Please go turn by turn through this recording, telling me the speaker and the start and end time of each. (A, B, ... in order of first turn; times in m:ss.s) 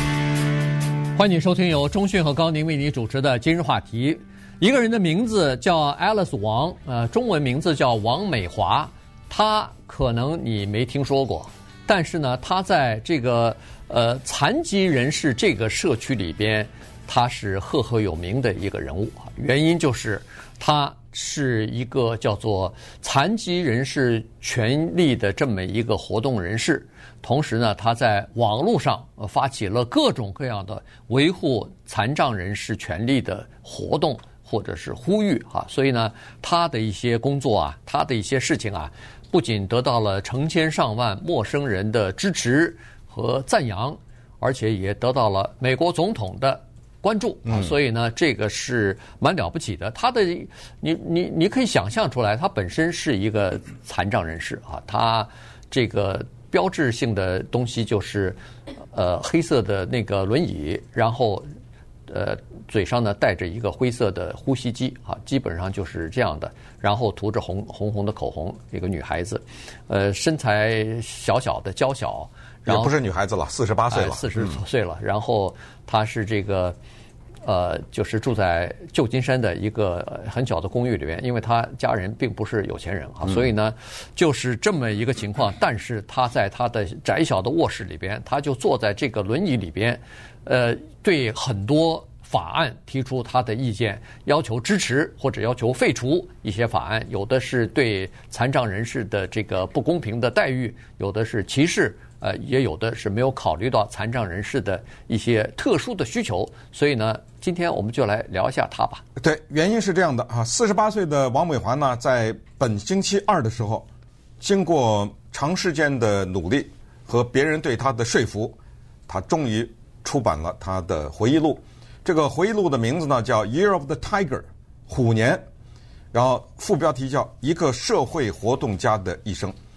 0:01.2-0:58.4 A
0:47.5-0:47.7 B
0:58.9-1:01.5 A
1:02.1-1:12.9 A
1:12.7-1:14.6 B
1:13.9-1:16.8 A
1:17.4-1:49.0 A
1:49.2-1:53.9 B
1:54.4-1:58.6 B
1:59.1-2:05.4 B
2:06.1-2:09.6 B